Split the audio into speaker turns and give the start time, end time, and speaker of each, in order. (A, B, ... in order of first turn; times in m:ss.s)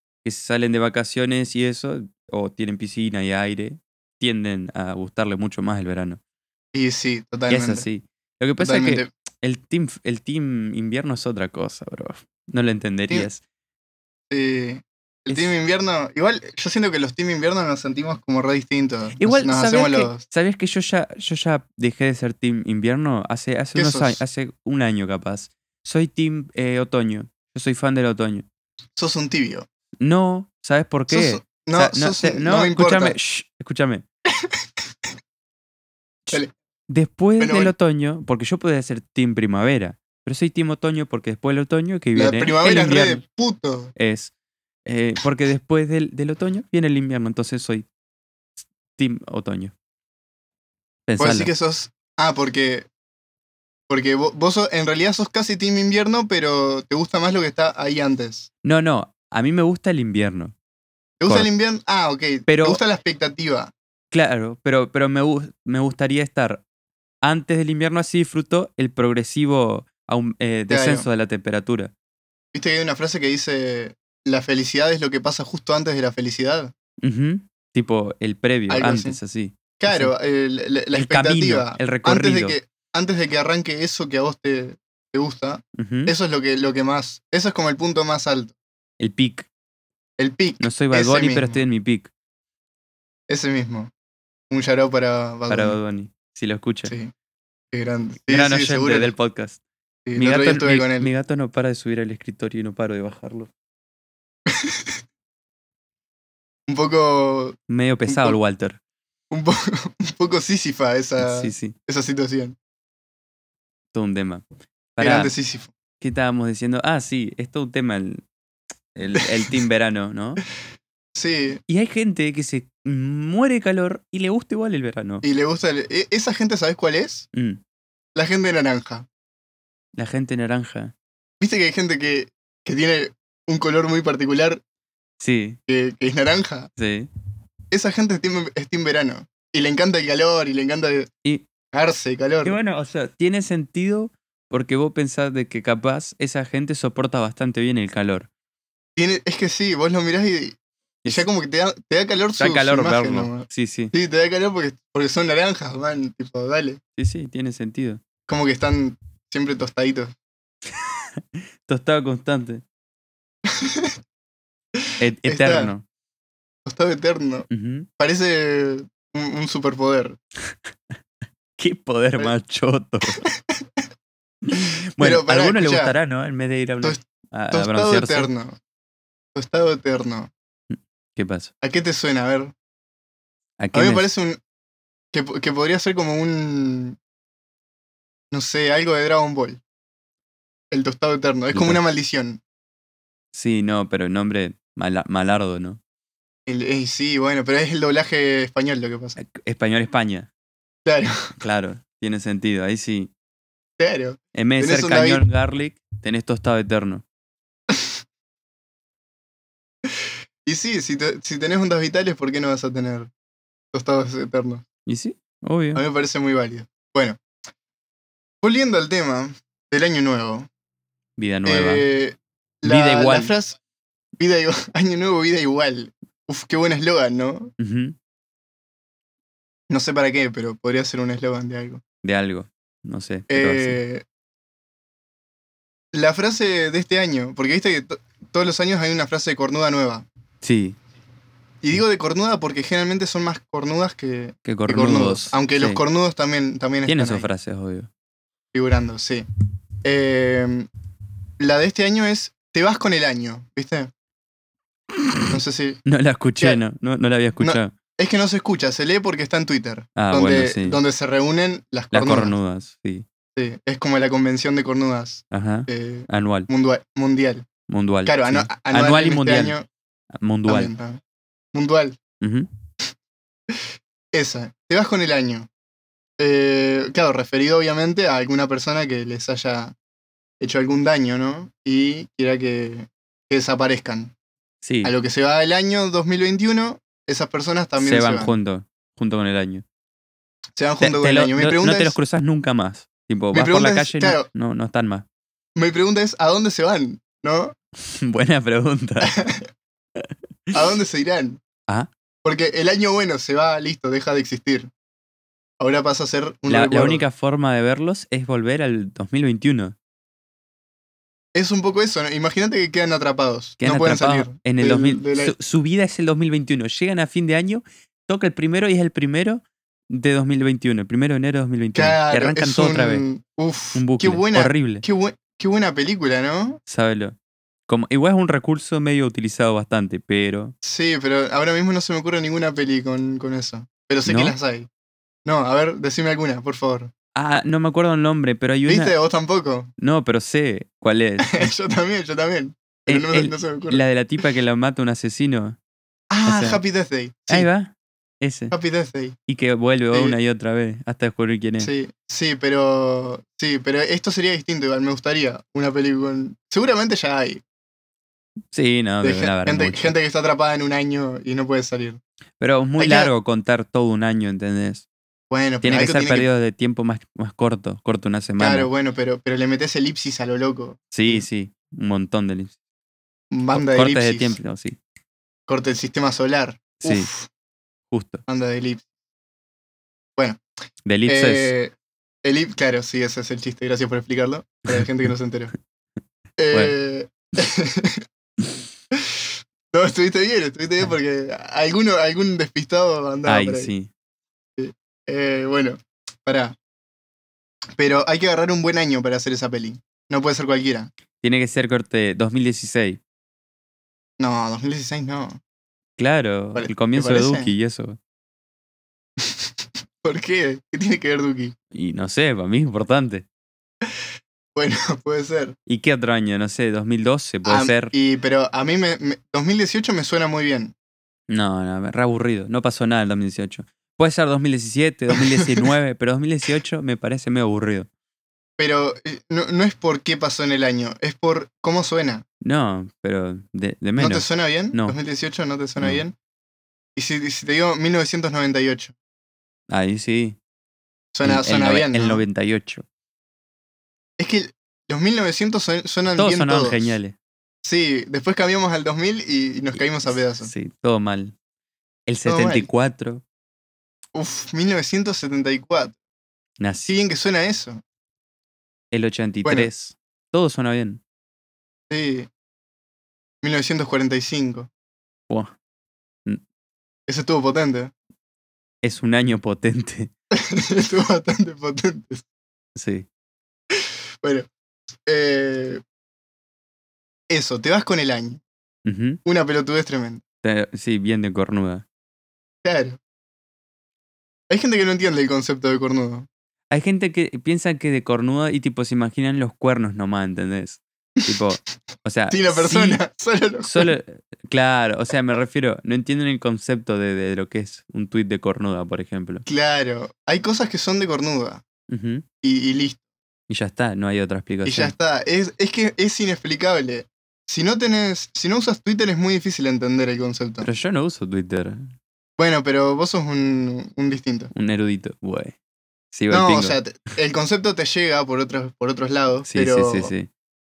0:00.2-0:06.2 A
0:06.7-0:07.8 B
0:07.5-0:13.4 A
0:08.6-0:09.1 B
0:14.3-0:20.2 B
0:19.2-0:28.4 A
0:23.7-0:24.2 B
0:29.0-0:29.7 B
0:30.0-0:34.0 A
0:31.1-0:33.2 B
0:36.2-0:43.2 A
0:37.4-0:37.7 B
0:42.1-0:43.9 B
0:44.0-0:44.3 A
0:44.8-0:47.8 A
0:49.0-0:49.7 A
0:51.1-0:51.5 A
0:51.2-0:52.9 B
0:53.9-0:58.5 B
0:58.6-1:00.5 A
1:01.2-1:03.7 B
1:02.5-1:02.8 A
1:04.1-1:06.6 A
1:07.2-1:11.9 A
1:10.7-1:11.1 B
1:12.5-1:16.7 B
1:17.0-1:20.1 A
1:18.7-1:19.2 B
1:19.8-1:28.6 B
1:20.9-1:22.6 A
1:25.7-1:26.1 A
1:29.0-1:29.5 A
1:30.2-1:31.6 B
1:30.6-1:32.1 A
1:33.3-1:33.9 B
1:34.5-1:35.8 B
1:35.5-1:36.9 A
1:36.8-1:37.1 B
1:37.7-1:39.1 B
1:38.3-1:39.6 A
1:40.0-1:41.1 B
1:40.2-1:43.5 A
1:44.5-1:45.0 B
1:46.7-1:48.4 B
1:47.7-1:48.8 A
1:49.3-1:52.6 B
1:51.2-1:51.7 A
1:53.9-1:54.4 A
1:55.0-1:55.3 A
1:55.0-1:55.7 B
1:56.0-1:58.2 A
1:58.9-2:00.4 A
2:01.2-2:01.6 B
2:01.7-2:05.2 A
2:05.2-2:07.3 B
2:07.3-2:07.6 A
2:08.1-2:09.1 B
2:10.0-2:10.9 A
2:11.4-2:14.6 B
2:15.2-2:15.6 A
2:15.7-2:16.7 B
2:16.8-2:17.1 A
2:17.7-2:21.1 B
2:21.7-2:22.6 B
2:22.4-2:28.3 A
2:29.0-2:36.8 B
2:32.4-2:33.9 A
2:37.0-2:38.0 A
2:38.3-2:40.1 B
2:40.8-2:42.6 A
2:43.5-2:43.9 B
2:45.0-2:45.8 A
2:45.2-2:45.7 B
2:46.6-2:50.2 B
2:47.5-2:47.9 A
2:50.5-2:50.9 A
2:51.6-2:53.2 A
2:54.5-2:58.3 A
2:55.0-2:55.9 B
2:56.8-2:58.6 B
2:59.3-3:00.3 B
3:00.7-3:01.5 A
3:01.6-3:02.5 B
3:03.6-3:04.0 A
3:03.7-3:04.4 B
3:05.1-3:07.0 B
3:08.3-3:09.6 B
3:10.7-3:12.4 B
3:11.5-3:11.8 A
3:13.3-3:15.8 A
3:16.5-3:19.2 B
3:19.2-3:20.3 A
3:20.8-3:21.3 B
3:21.4-3:23.1 A
3:23.8-3:25.2 B
3:24.3-3:27.0 A
3:30.4-3:33.1 B
3:33.7-3:34.6 B
3:34.8-3:35.8 A
3:35.7-3:37.2 B
3:38.4-3:40.5 B
3:41.2-3:41.9 A
3:41.4-3:43.6 B
3:42.6-3:43.3 A
3:44.2-3:47.5 B
3:47.6-3:48.0 A
3:49.7-3:51.8 B
3:52.0-3:53.8 A
3:53.3-3:54.0 B
3:55.9-4:00.0 B
4:00.4-4:00.8 A
4:01.6-4:07.3 B
4:04.4-4:05.8 A
4:06.9-4:07.9 A
4:08.5-4:09.2 B
4:09.8-4:10.7 B
4:11.4-4:13.9 B
4:15.3-4:15.8 B
4:15.8-4:17.7 A
4:17.4-4:22.4 B
4:20.0-4:20.8 A
4:21.9-4:23.0 A
4:23.4-4:27.5 B
4:25.3-4:26.5 A
4:27.7-4:29.6 A
4:28.0-4:29.7 B
4:30.1-4:30.7 A
4:30.5-4:31.0 B
4:31.5-4:32.0 B
4:32.2-4:32.5 A
4:34.1-4:35.5 B
4:36.2-4:39.7 B
4:40.4-4:44.1 B
4:44.6-4:44.9 A
4:44.8-4:48.3 B
4:47.8-4:49.6 A
4:50.6-4:52.0 B
4:50.8-4:55.0 A
4:53.3-4:54.3 B
4:55.6-4:57.5 B
4:57.9-4:59.1 A
4:59.0-4:59.5 B
5:00.5-5:01.4 B
5:02.2-5:04.7 B
5:05.6-5:07.0 B
5:06.5-5:09.7 A
5:11.3-5:15.3 B
5:13.6-5:23.0 A
5:21.7-5:26.6 B
5:23.7-5:24.8 A
5:26.7-5:27.2 A
5:27.7-5:30.5 A
5:30.6-5:34.7 B
5:34.1-5:34.4 A
5:35.2-5:36.9 B
5:37.1-5:38.9 A
5:38.6-5:39.7 B
5:39.8-5:41.5 A
5:41.2-5:43.8 B
5:42.9-5:45.6 A
5:46.1-5:47.5 B
5:46.2-5:46.6 A
5:47.3-5:48.5 A
5:48.5-5:49.2 B
5:49.3-5:51.7 A
5:49.9-5:50.2 B
5:51.6-5:57.4 B
5:58.5-5:59.9 A
5:59.0-6:02.0 B
6:02.4-6:04.8 A
6:02.8-6:03.1 B
6:05.3-6:06.3 B
6:05.6-6:08.7 A
6:08.4-6:11.2 B
6:10.9-6:12.5 A
6:13.3-6:14.4 B
6:13.5-6:14.8 A
6:15.5-6:17.3 B
6:16.8-6:17.1 A
6:17.9-6:18.2 A
6:18.3-6:18.8 B
6:20.2-6:20.4 B
6:20.8-6:21.5 A
6:21.0-6:25.5 B
6:26.4-6:28.0 B
6:29.1-6:33.7 B
6:33.2-6:33.9 A
6:34.6-6:36.6 B
6:37.8-6:40.9 B
6:41.2-6:43.0 A
6:44.2-6:45.4 B
6:46.0-6:48.0 A
6:46.5-6:47.5 B
6:50.0-6:51.5 B
6:51.7-6:53.2 A
6:54.6-6:55.6 B
6:55.7-6:57.9 A
6:57.4-7:00.7 B
7:01.3-7:07.9 A
7:05.2-7:05.6 B
7:08.6-7:12.2 B
7:12.4-7:15.0 A
7:14.0-7:16.1 B
7:15.8-7:16.0 A
7:17.0-7:18.9 B
7:19.7-7:20.4 A
7:21.1-7:22.2 B
7:21.2-7:22.8 A
7:24.2-7:27.0 B
7:26.1-7:27.2 A
7:27.6-7:30.5 B
7:29.8-7:31.3 A
7:32.1-7:33.2 A
7:32.2-7:32.7 B
7:34.1-7:36.0 B
7:36.6-7:36.9 A
7:36.8-7:37.8 B
7:38.9-7:41.0 A
7:39.4-7:39.7 B
7:41.9-7:42.3 B
7:43.4-7:44.7 B
7:45.3-7:45.5 A
7:47.1-7:47.9 B
7:48.8-7:50.1 A
7:50.3-7:52.2 B
7:52.8-7:53.1 A
7:54.2-7:54.5 B
7:55.1-7:55.8 B
7:57.3-7:58.4 B
7:58.8-7:59.2 A
7:59.2-8:00.2 B
8:00.4-8:01.8 A
8:02.6-8:03.0 B
8:04.5-8:06.3 B
8:06.7-8:13.0 A
8:12.3-8:13.9 B
8:13.6-8:19.4 A
8:19.4-8:21.6 B
8:21.9-8:22.2 A
8:22.4-8:23.0 B
8:23.5-8:24.9 A
8:24.6-8:30.7 B
8:30.6-8:31.9 A
8:32.4-8:34.5 B
8:34.5-8:35.5 A
8:36.1-8:36.8 A
8:36.3-8:40.1 B
8:39.4-8:40.3 A